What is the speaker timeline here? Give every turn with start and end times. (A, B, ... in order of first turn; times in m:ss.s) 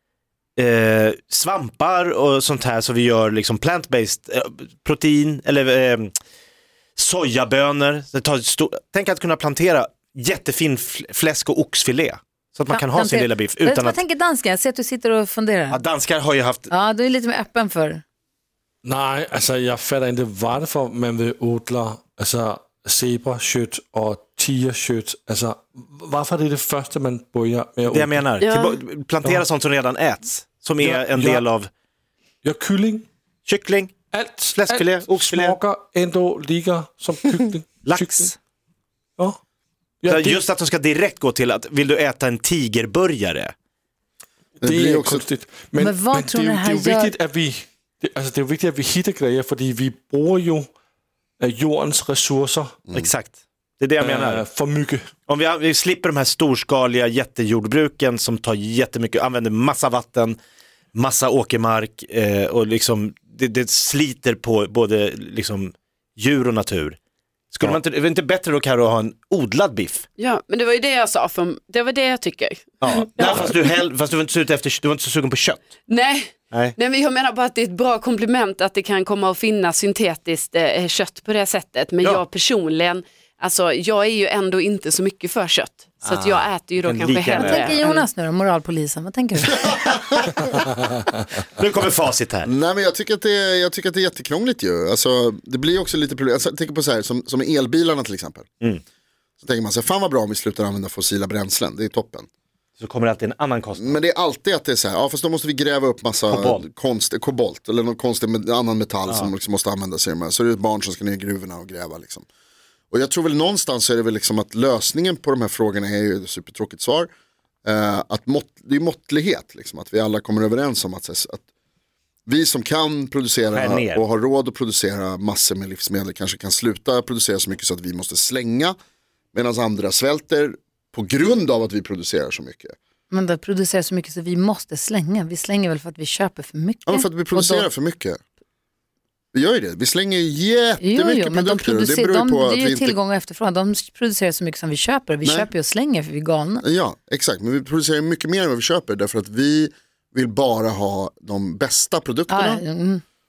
0:00.6-0:06.1 A
0:07.0-0:14.0 A
0:12.7-0:15.8 B
0:15.7-0:16.7 A
0:16.7-0:18.0 B
0:18.8-0:28.2 C
0:27.9-0:31.7 A
0:28.4-0:28.8 D
0:30.8-0:31.4 C
0:32.4-0:33.1 C
0:33.4-0:33.9 A
0:34.1-0:38.3 C
0:34.5-0:35.6 A
0:37.8-0:38.3 A
0:40.0-0:40.4 C
0:40.1-0:43.5 A
0:44.6-0:45.3 E
0:44.6-0:50.7 C
0:45.8-0:47.1 B
0:51.4-0:52.8 C
0:52.9-0:54.4 A
0:54.0-0:55.1 C
0:55.3-1:00.4 A
1:00.9-1:07.0 A
1:07.5-1:10.0 A
1:10.2-1:13.5 D
1:12.8-1:15.6 A
1:15.9-1:28.0 D
1:26.0-1:27.8 A
1:27.3-1:29.8 B
1:31.5-1:32.5 A
1:32.4-1:38.4 E
1:39.4-1:42.3 E
1:42.8-1:44.0 A
1:43.8-1:52.2 E
1:46.3-1:46.6 A
1:52.9-1:57.1 E
1:57.6-2:01.4 E
2:02.3-2:08.8 E
2:03.5-2:04.0 A
2:09.3-2:12.7 E
2:13.1-2:17.7 B
2:16.9-2:18.2 E
2:19.3-2:23.0 E
2:20.8-2:26.6 B
2:26.6-2:32.6 E
2:32.3-2:33.0 B